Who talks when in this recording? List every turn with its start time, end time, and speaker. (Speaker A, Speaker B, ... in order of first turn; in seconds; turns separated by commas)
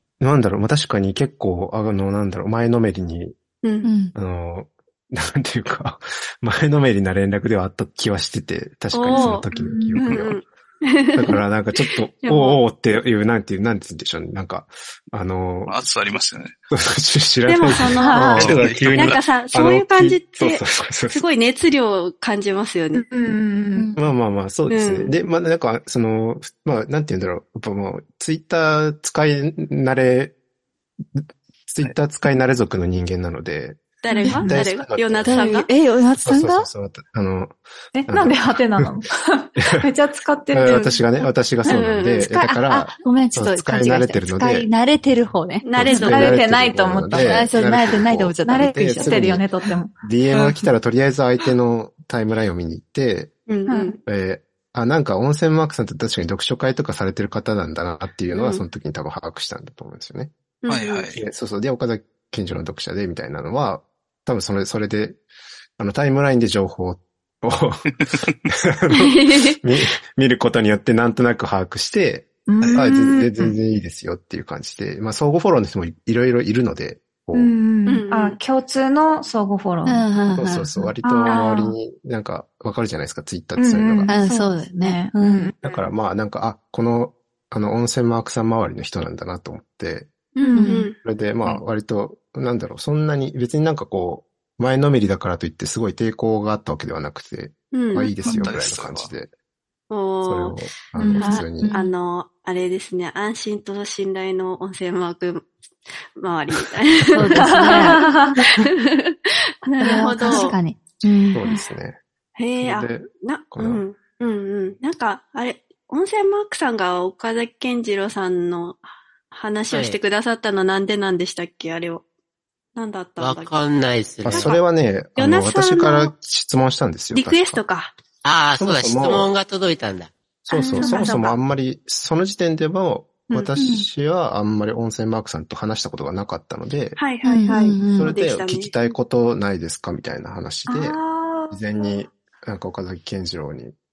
Speaker A: 0.2-3.4, Speaker B: 3.6-3.9, Speaker C: 3.8-4.1, Speaker A: 4.1-10.4, Speaker B: 8.9-11.3, Speaker D: 9.1-10.2, Speaker A: 11.1-15.8, Speaker B: 12.2-12.6, Speaker E: 15.7-16.5, Speaker A: 16.7-21.2, Speaker B: 17.4-23.0, Speaker D: 18.0-18.5, Speaker E: 18.4-19.2, Speaker D: 22.9-23.9, Speaker C: 23.7-24.0, Speaker A: 23.9-30.3, Speaker B: 24.7-25.1, Speaker A: 31.1-35.7, Speaker B: 34.0-35.7, Speaker D: 34.1-34.4, Speaker C: 34.2-34.6, Speaker C: 35.2-36.7, Speaker A: 36.2-38.9, Speaker D: 37.9-41.0, Speaker A: 39.6-39.9, Speaker A: 40.5-44.7, Speaker B: 40.7-41.0, Speaker B: 41.6-42.3, Speaker C: 42.2-46.4, Speaker B: 45.6-46.4, Speaker A: 45.8-49.4, Speaker D: 45.9-47.5, Speaker C: 47.1-49.5, Speaker D: 48.5-49.9, Speaker A: 50.0-53.3, Speaker B: 53.5-54.0, Speaker D: 53.7-54.0, Speaker A: 54.0-60.3, Speaker B: 58.3-58.6, Speaker B: 60.6-61.1, Speaker E: 60.7-61.2, Speaker A: 61.1-65.2, Speaker A: 65.8-77.5, Speaker B: 69.0-69.6, Speaker D: 72.5-73.4, Speaker D: 77.3-80.1, Speaker B: 77.8-78.4, Speaker C: 79.8-80.7, Speaker A: 80.3-84.1, Speaker D: 80.8-81.7, Speaker D: 83.5-85.5, Speaker C: 84.1-85.5, Speaker A: 85.6-90.1, Speaker B: 90.3-91.0, Speaker D: 90.4-90.9, Speaker C: 90.5-90.9, Speaker A: 91.0-99.3, Speaker B: 97.7-98.1, Speaker E: 98.2-99.1, Speaker B: 99.9-100.6, Speaker A: 100.2-101.7, Speaker D: 101.0-101.5, Speaker B: 101.2-105.5, Speaker C: 101.6-101.9, Speaker B: 106.2-110.6, Speaker C: 107.1-108.2, Speaker D: 107.3-108.4, Speaker C: 109.8-111.5, Speaker D: 109.8-110.5, Speaker A: 111.3-112.0, Speaker B: 112.4-122.0, Speaker A: 112.6-113.8, Speaker F: 119.7-120.0, Speaker B: 122.8-123.5, Speaker F: 123.2-124.5, Speaker B: 124.2-124.6, Speaker A: 124.2-127.6, Speaker B: 125.2-126.1, Speaker B: 127.1-127.9, Speaker F: 128.2-130.1, Speaker A: 128.6-129.3, Speaker A: 130.5-137.0, Speaker B: 130.5-131.4, Speaker D: 130.7-131.3, Speaker C: 133.6-133.9, Speaker B: 137.0-138.9, Speaker C: 137.2-138.2, Speaker A: 137.7-143.8, Speaker D: 140.7-142.0